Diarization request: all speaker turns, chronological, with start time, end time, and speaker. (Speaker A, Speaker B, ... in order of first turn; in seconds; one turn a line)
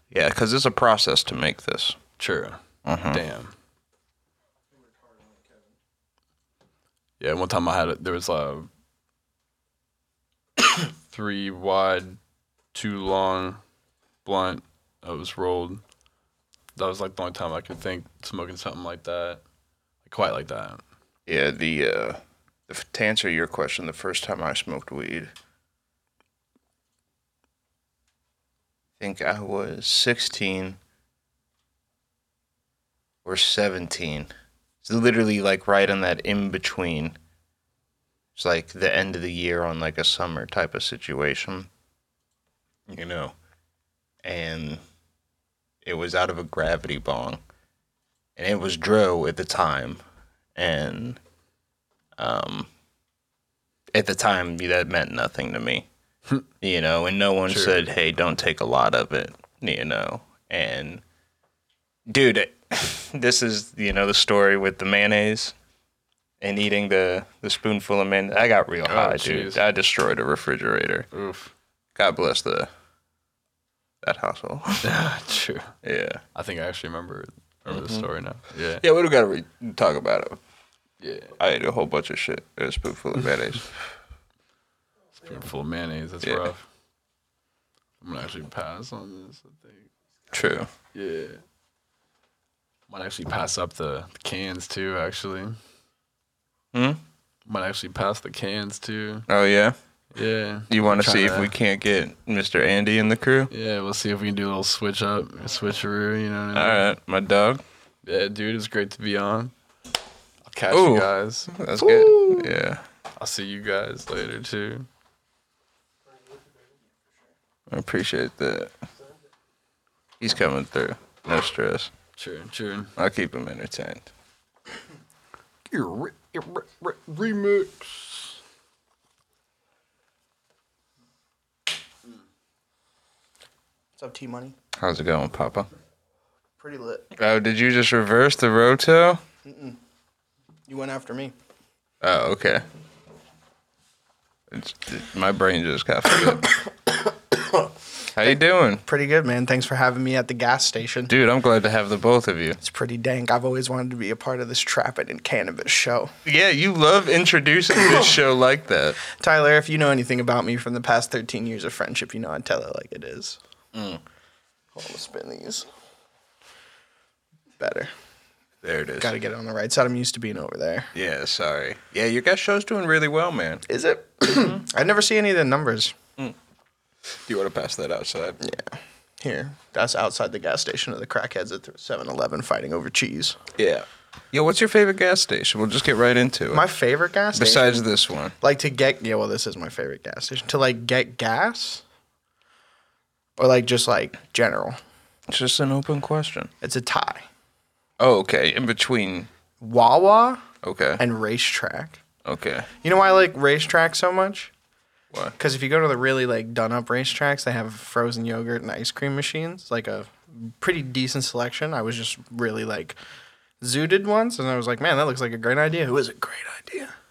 Speaker A: 0.1-2.0
Speaker B: 2.2-3.5
Speaker A: 2.9-3.2
Speaker B: 7.2-8.7
Speaker B: 11.1-12.2
Speaker B: 12.7-13.6
Speaker B: 14.2-15.8
Speaker B: 16.8-19.4
Speaker B: 20.1-20.8
Speaker A: 21.3-25.3
Speaker A: 29.0-30.8
Speaker A: 33.2-34.3
Speaker A: 34.8-37.2
Speaker A: 38.4-41.7
Speaker A: 42.9-43.3
Speaker A: 44.2-44.8
Speaker A: 45.9-47.4
Speaker A: 48.4-50.0
Speaker A: 50.6-51.2
Speaker A: 52.2-52.7
Speaker A: 53.9-55.9
Speaker A: 56.6-61.0
Speaker B: 57.5-57.9
Speaker A: 62.1-65.5
Speaker A: 66.4-71.1
Speaker B: 68.9-69.6
Speaker B: 71.1-71.5
Speaker A: 72.0-72.7
Speaker A: 74.0-74.9
Speaker B: 74.8-75.7
Speaker A: 75.8-76.2
Speaker B: 76.3-78.8
Speaker A: 77.7-78.0
Speaker A: 78.8-80.4
Speaker B: 81.0-81.4
Speaker A: 81.4-83.7
Speaker B: 85.2-86.7
Speaker B: 88.0-89.9
Speaker A: 90.3-90.7
Speaker B: 90.9-91.4
Speaker B: 92.9-95.6
Speaker A: 96.7-97.0
Speaker B: 97.5-99.3
Speaker A: 99.3-99.8
Speaker B: 100.1-101.5
Speaker A: 100.7-103.5
Speaker B: 103.5-106.8
Speaker A: 106.5-107.6
Speaker B: 108.0-109.5
Speaker B: 110.5-111.5
Speaker A: 110.7-112.8
Speaker C: 111.9-112.2
Speaker B: 113.2-114.9
Speaker A: 117.7-118.7
Speaker A: 120.2-121.9
Speaker B: 122.2-122.9
Speaker A: 123.0-124.1
Speaker B: 125.7-128.4
Speaker C: 134.0-134.6
Speaker A: 134.8-135.7
Speaker C: 136.6-137.1
Speaker A: 137.2-139.2
Speaker C: 139.4-139.8
Speaker C: 140.7-141.3
Speaker A: 142.0-142.6
Speaker A: 144.5-146.6
Speaker C: 147.3-147.6
Speaker A: 148.1-148.8
Speaker C: 148.2-151.1
Speaker A: 151.1-152.6
Speaker C: 152.6-156.1
Speaker A: 156.2-159.0
Speaker C: 159.1-163.4
Speaker A: 163.7-164.0
Speaker C: 164.8-165.7
Speaker C: 167.6-167.9
Speaker A: 168.6-169.1
Speaker C: 169.0-170.9
Speaker A: 170.9-173.6
Speaker C: 173.7-176.0
Speaker A: 174.3-174.6
Speaker A: 177.3-178.4
Speaker C: 178.4-183.4
Speaker A: 183.6-186.6
Speaker C: 186.5-187.9
Speaker A: 187.3-188.3
Speaker C: 188.4-191.8
Speaker C: 193.4-194.8
Speaker A: 195.3-196.5
Speaker C: 196.6-197.3
Speaker A: 198.0-199.3
Speaker C: 199.6-200.4
Speaker A: 200.6-201.0
Speaker C: 201.0-202.0
Speaker A: 202.2-202.7
Speaker C: 202.8-204.5
Speaker C: 205.4-213.0
Speaker C: 213.6-216.9